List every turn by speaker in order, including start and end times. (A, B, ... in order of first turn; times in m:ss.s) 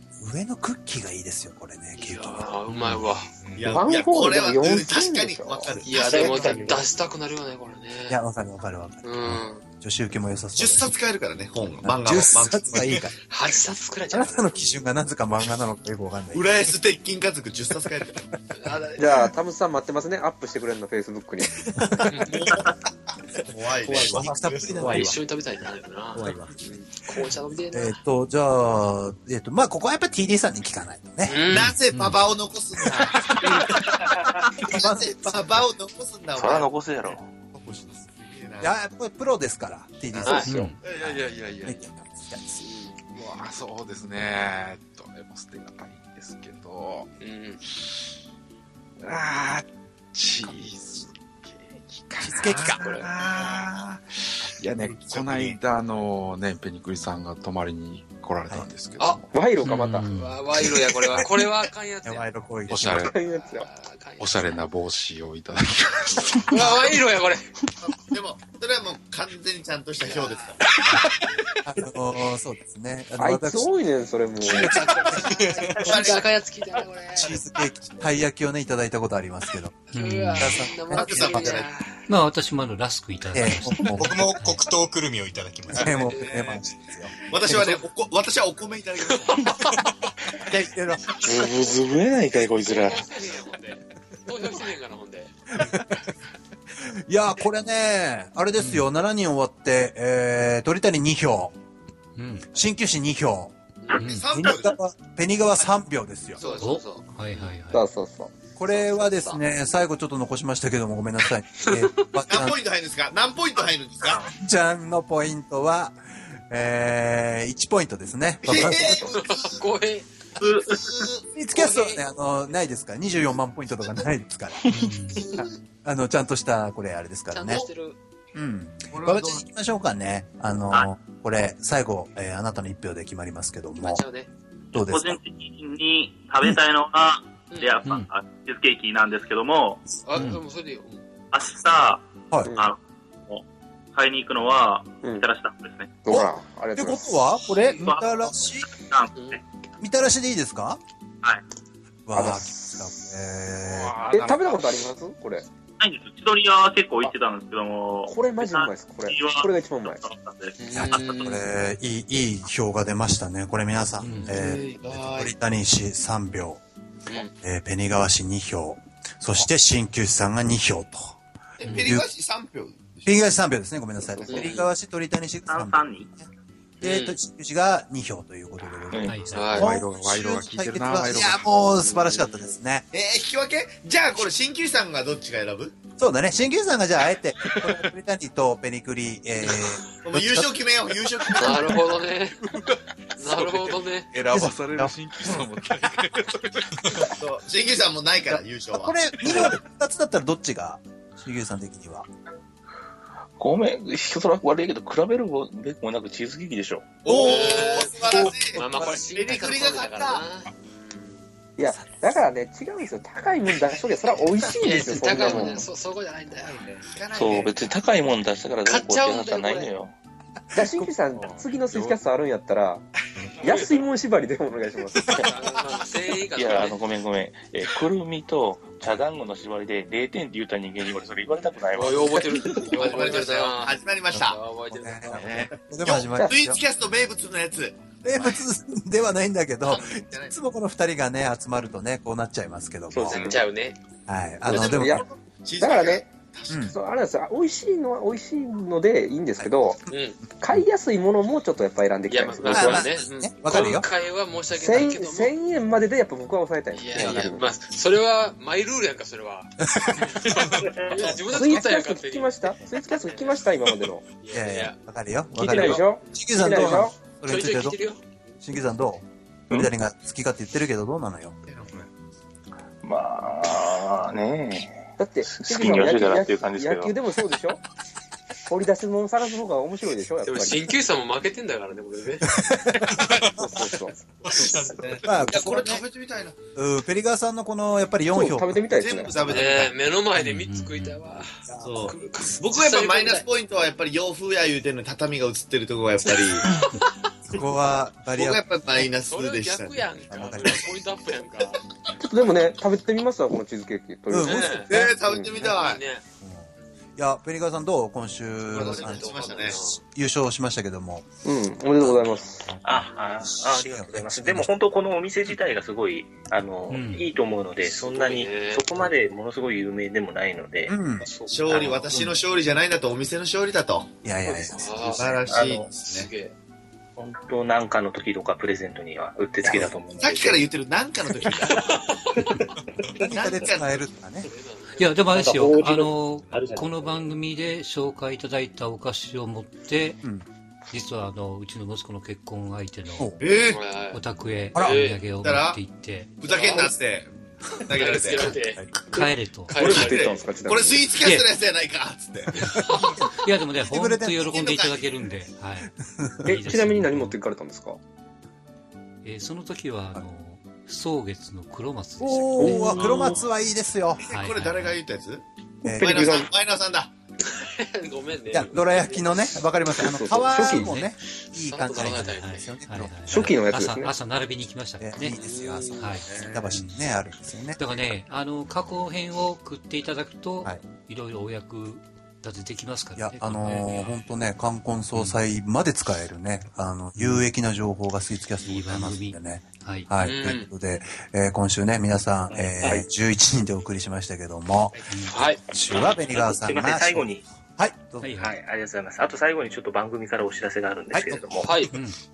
0:00.2-0:02.6 A
0:01.9-0:03.3 B
0:02.7-0:03.2 C
0:03.6-0:06.7 D
0:03.6-0:05.9 E
0:05.8-0:08.2 B
0:08.1-0:10.9 A
0:09.0-0:09.6 B
0:10.5-0:13.0 D
0:11.8-0:13.1 A
0:13.1-0:14.8 B
0:14.1-0:16.5 A
0:16.3-0:18.3 D
0:18.5-0:19.2 B
0:19.0-0:21.5 E
0:21.7-0:22.2 A
0:22.0-0:22.5 B
0:22.3-0:22.6 D
0:23.5-0:24.6 D
0:23.8-0:25.2 A
0:24.3-0:24.9 F
0:24.7-0:28.0 B
0:26.2-0:26.5 A
0:27.7-0:31.6 A
0:31.2-0:31.8 B
0:31.4-0:36.8 D
0:31.9-0:32.2 C
0:33.4-0:33.9 A
0:34.5-0:35.7 A
0:36.3-0:37.3 G
0:37.6-0:38.0 A
0:37.7-0:38.8 D
0:38.6-0:42.7 A
0:40.2-0:40.5 B
0:40.2-0:40.7 E
0:40.4-0:40.8 C
0:40.8-0:41.2 D
0:40.9-0:41.9 H
0:42.6-0:42.9 B
0:43.0-0:47.1 H
0:47.2-0:47.6 B
0:47.6-0:47.9 H
0:49.0-0:59.3 H
0:52.2-0:52.8 A
0:52.8-0:53.2 B
0:54.9-0:55.6 D
0:59.3-1:00.1 E
0:59.6-1:00.7 C
1:00.1-1:02.4 B
1:02.0-1:03.1 A
1:02.7-1:03.1 H
1:03.1-1:03.7 E
1:03.3-1:04.6 B
1:04.2-1:07.0 H
1:06.4-1:07.4 B
1:07.8-1:11.0 D
1:10.0-1:11.0 B
1:11.6-1:13.7 A
1:13.2-1:14.9 E
1:14.4-1:17.6 B
1:14.4-1:15.3 A
1:15.4-1:15.8 F
1:15.8-1:16.3 D
1:17.1-1:21.5 A
1:19.9-1:20.7 C
1:19.9-1:22.1 B
1:20.9-1:21.7 D
1:22.1-1:24.6 C
1:23.3-1:24.4 A
1:23.9-1:26.4 F
1:25.7-1:27.8 A
1:25.8-1:26.7 B
1:27.3-1:29.6 D
1:29.0-1:30.4 B
1:30.4-1:31.2 A
1:31.2-1:31.8 B
1:31.2-1:33.2 G
1:32.3-1:35.3 B
1:35.6-1:35.9 A
1:36.8-1:41.5 A
1:38.6-1:38.9 C
1:42.2-1:42.5 C
1:42.5-1:43.5 A
1:43.8-1:44.2 B
1:43.9-1:44.3 C
1:44.0-1:44.8 D
1:44.2-1:46.4 A
1:46.4-1:47.6 B
1:46.6-1:47.8 C
1:47.7-1:48.3 E
1:48.6-1:52.6 A
1:48.7-1:49.4 B
1:51.6-1:52.1 B
1:52.3-1:54.3 D
1:54.2-1:56.0 A
1:56.5-1:59.2 A
1:58.4-1:59.6 D
1:58.5-2:00.1 B
2:00.4-2:00.7 I
2:00.6-2:01.6 D
2:01.3-2:07.6 A
2:01.6-2:02.1 B
2:04.7-2:05.3 C
2:05.2-2:05.5 B
2:07.3-2:08.0 B
2:08.3-2:14.0 A
2:08.9-2:09.4 D
2:13.8-2:14.3 B
2:14.7-2:15.2 A
2:14.8-2:19.8 I
2:17.5-2:17.8 B
2:17.8-2:18.1 C
2:20.0-2:21.0 B
2:20.1-2:20.4 C
2:21.3-2:23.4 I
2:23.9-2:25.9 I
2:25.0-2:25.3 E
2:26.0-2:27.1 E
2:26.1-2:28.7 A
2:27.5-2:28.0 B
2:27.8-2:29.4 I
2:29.1-2:29.4 B
2:29.8-2:30.8 A
2:32.0-2:34.0 A
2:32.1-2:32.8 E
2:33.6-2:34.8 H
2:34.1-2:35.4 E
2:35.8-2:40.5 I
2:38.1-2:40.0 E
2:40.6-2:41.4 B
2:40.7-2:46.6 A
2:44.0-2:44.4 C
2:44.2-2:44.8 B
2:44.3-2:45.3 D
2:47.0-2:47.3 B
2:47.4-2:51.2 A
2:51.6-2:53.2 D
2:51.6-2:52.0 C
2:51.8-2:52.1 A
2:53.0-2:56.3 A
2:54.2-2:54.7 B
2:55.5-2:56.1 I
2:56.8-2:57.2 B
2:56.8-3:02.8 A
2:58.9-2:59.6 G
2:59.0-2:59.5 C
2:59.2-2:59.8 B
2:59.6-3:01.5 H
3:01.6-3:02.5 B
3:02.9-3:05.8 D
3:06.0-3:10.6 A
3:10.0-3:11.8 D
3:11.3-3:12.4 B
3:12.4-3:17.2 H
3:13.2-3:14.1 B
3:14.3-3:15.0 A
3:17.2-3:19.3 D
3:18.3-3:22.1 A
3:23.4-3:27.0 G
3:27.0-3:30.2 D
3:27.0-3:31.2 B
3:31.6-3:35.7 E
3:31.7-3:32.2 A
3:34.2-3:37.4 B
3:34.6-3:35.3 D
3:36.3-3:37.7 D
3:37.1-3:39.9 G
3:38.6-3:39.7 B
3:40.5-3:42.8 E
3:41.1-3:42.0 H
3:43.4-3:45.2 E
3:45.1-3:46.8 B
3:46.3-3:52.6 G
3:51.7-3:55.4 B
3:52.5-3:54.4 D
3:54.7-3:56.6 A
3:55.8-3:58.4 D
3:58.0-4:03.3 A
3:59.6-4:00.4 D
4:02.9-4:03.4 G
4:02.9-4:03.8 B
4:04.1-4:05.0 A
4:04.4-4:06.7 D
4:04.4-4:05.1 E
4:05.6-4:13.0 E
4:06.5-4:06.7 A
4:09.9-4:10.2 B
4:12.1-4:15.3 B
4:12.5-4:13.9 A
4:14.5-4:17.5 E
4:16.7-4:23.4 B
4:19.8-4:21.6 A
4:21.2-4:24.1 E
4:24.2-4:24.8 B
4:24.3-4:27.8 A
4:25.4-4:27.0 E
4:25.4-4:25.9 B
4:27.2-4:28.0 B
4:28.4-4:31.4 A
4:31.5-4:31.9 D
4:32.8-4:37.0 G
4:35.0-4:37.6 E
4:38.4-4:40.6 E
4:40.2-4:42.4 B
4:42.3-4:43.3 A
4:43.3-4:44.9 E
4:44.2-4:44.9 F
4:44.8-4:46.4 D
4:45.0-4:45.8 A
4:46.5-4:48.8 A
4:48.1-4:49.4 E
4:48.7-4:49.8 D
4:49.2-4:53.3 B
4:50.2-4:51.0 C
4:51.5-4:51.9 A
4:51.6-4:56.5 D
4:56.0-4:56.9 B
4:57.3-4:58.4 A
4:58.1-4:59.8 D
4:58.7-5:01.6 B
5:00.1-5:00.7 A
5:02.0-5:05.3 E
5:04.1-5:04.9 A
5:04.2-5:04.7 B
5:04.7-5:05.8 D
5:05.3-5:06.0 B
5:06.2-5:11.0 A
5:06.6-5:06.9 B
5:08.5-5:09.6 D
5:08.5-5:09.8 B
5:11.2-5:12.5 E
5:11.8-5:14.5 A
5:12.6-5:21.9 J
5:16.7-5:17.0 C
5:17.6-5:18.9 B
5:20.7-5:21.1 A
5:21.3-5:23.9 D
5:24.0-5:25.2 A
5:24.3-5:26.3 B
5:24.9-5:26.1 D
5:25.3-5:25.7 J
5:27.0-5:30.4 J
5:30.0-5:31.6 D
5:31.1-5:32.5 B
5:33.0-5:34.3 A
5:33.0-5:33.8 D
5:34.2-5:35.1 B
5:34.8-5:40.0 C
5:35.1-5:36.8 J
5:40.7-5:43.1 C
5:42.9-5:43.2 A
5:43.2-5:43.6 D
5:43.4-5:44.0 B
5:43.9-5:46.2 C
5:44.6-5:45.1 B
5:45.2-5:45.6 D
5:46.2-5:47.1 D
5:46.2-5:46.7 B
5:47.6-5:48.5 D
5:47.7-5:50.3 B
5:48.4-5:48.7 A
5:48.9-5:49.9 C
5:49.5-5:52.6 D
5:49.6-5:51.0 E
5:52.3-5:55.7 C
5:52.4-5:54.3 A
5:54.2-5:54.9 D
5:56.0-5:56.3 A
5:56.2-5:57.2 C
5:56.2-5:57.8 E
5:59.0-6:02.8 C
6:02.0-6:04.1 A
6:02.4-6:03.2 E
6:02.5-6:03.3 B
6:04.0-6:04.8 C
6:04.0-6:05.2 D
6:05.6-6:06.3 E
6:05.6-6:06.2 A
6:05.8-6:06.9 D
6:07.2-6:09.4 B
6:08.3-6:13.3 A
6:09.8-6:10.7 E
6:10.5-6:10.9 C
6:11.2-6:12.5 B
6:12.1-6:15.2 C
6:13.1-6:13.9 E
6:14.8-6:17.6 A
6:15.0-6:16.2 B
6:15.8-6:16.8 C
6:16.1-6:16.5 D
6:17.6-6:23.9 C
6:23.0-6:34.8 A
6:27.0-6:27.3 C
6:28.4-6:29.9 C
6:30.0-6:30.5 B
6:32.3-6:32.8 J
6:34.9-6:35.2 C
6:35.0-6:35.4 B
6:35.5-6:38.1 A
6:36.1-6:37.2 J
6:38.0-6:38.3 C
6:38.2-6:41.5 J
6:40.9-6:41.2 A
6:41.4-6:41.8 B
6:41.7-6:42.0 C